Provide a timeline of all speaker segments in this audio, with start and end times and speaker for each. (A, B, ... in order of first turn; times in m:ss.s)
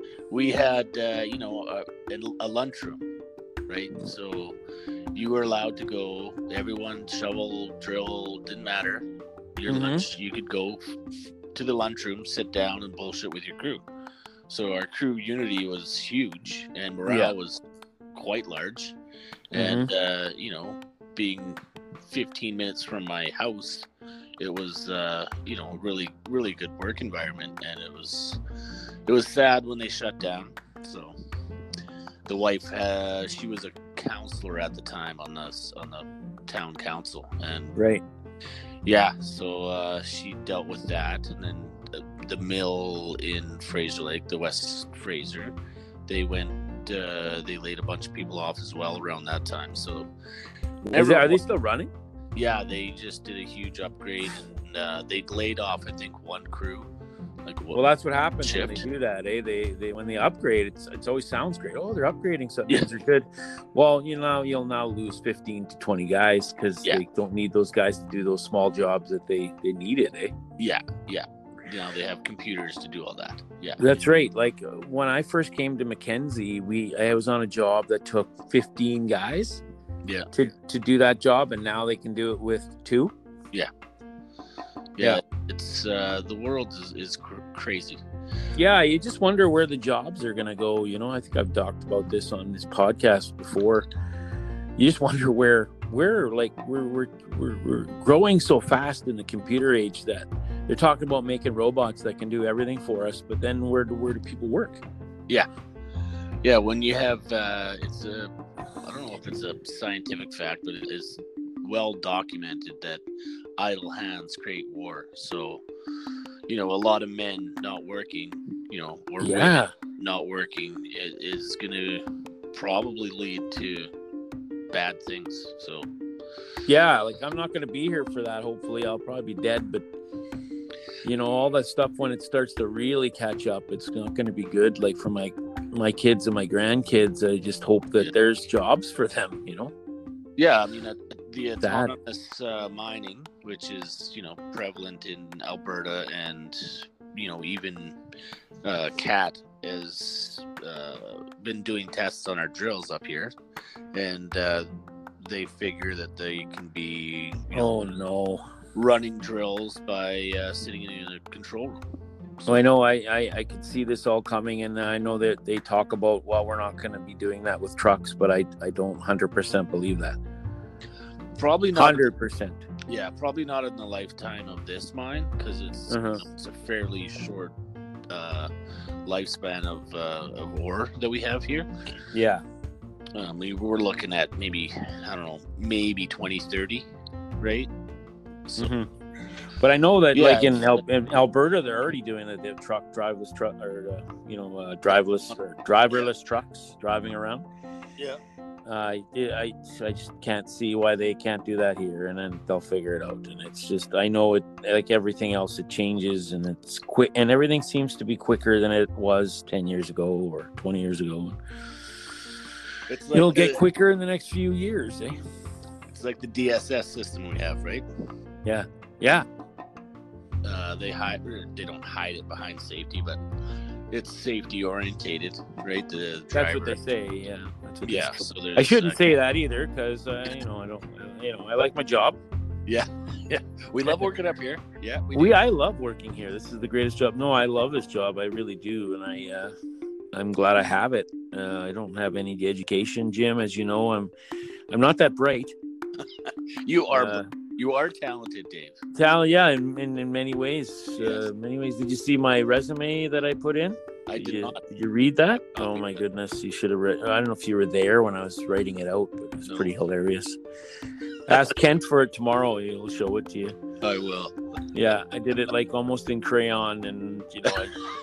0:00.3-0:03.0 A
0:03.7-0:04.6 A
0:05.1-0:11.0 A
0:09.7-0:10.1 B
0:11.5-0:13.8 A
0:14.5-0:17.6 A
0:17.1-0:17.3 B
0:18.1-0:19.0 A
0:19.5-0:23.9 A
0:19.5-0:19.9 B
0:24.4-0:28.4 A
0:29.1-0:31.1 A
0:32.3-0:37.8 A
0:37.8-0:38.0 B
0:38.8-0:45.5 A
0:46.1-0:50.1 A
0:50.8-0:51.4 A
0:50.9-0:51.9 B
0:52.3-0:56.9 A
0:57.4-0:57.8 A
0:57.7-1:10.3 B
0:58.4-0:58.8 A
1:10.6-1:14.0 A
1:13.8-1:19.6 B
1:20.0-1:20.3 A
1:20.3-1:23.1 B
1:25.0-1:28.0 A
1:28.5-1:33.9 B
1:34.8-1:44.8 B
1:46.4-1:48.3 A
1:48.8-1:53.0 A
1:53.6-1:55.6 A
1:56.5-2:03.9 A
1:59.2-1:59.7 B
2:04.7-2:05.9 A
2:06.6-2:09.8 B
2:11.0-2:19.7 B
2:20.4-2:28.0 A
2:21.6-2:21.9 B
2:28.6-2:33.4 A
2:33.9-2:34.7 A
2:35.2-2:37.7 A
2:37.5-2:38.4 B
2:38.7-2:41.8 A
2:42.4-2:42.6 A
2:42.4-2:50.2 B
2:51.4-2:52.1 A
2:51.7-2:52.6 B
2:52.9-2:57.5 A
2:55.9-2:56.2 B
2:58.1-2:58.5 A
2:59.0-3:01.7 A
3:02.1-3:02.4 B
3:03.1-3:06.9 A
3:07.4-3:07.7 A
3:08.4-3:08.7 A
3:08.6-3:08.9 B
3:09.6-3:17.4 B
3:10.1-3:10.8 A
3:18.6-3:31.4 B
3:32.9-3:33.6 A
3:33.1-3:35.2 B
3:35.9-3:37.8 A
3:38.4-3:39.2 B
3:40.4-3:43.2 A
3:43.9-3:46.8 A
3:46.3-3:52.2 B
3:47.8-3:49.2 A
3:52.7-3:55.4 A
3:55.1-3:59.5 B
4:00.1-4:04.1 B
4:04.7-4:05.5 B
4:06.0-4:08.8 A
4:06.9-4:07.3 B
4:08.9-4:20.4 B
4:11.0-4:11.3 A
4:14.1-4:14.6 A
4:15.6-4:16.0 A
4:19.4-4:19.7 A
4:21.2-4:23.6 B
4:23.8-4:24.4 A
4:24.7-4:27.8 B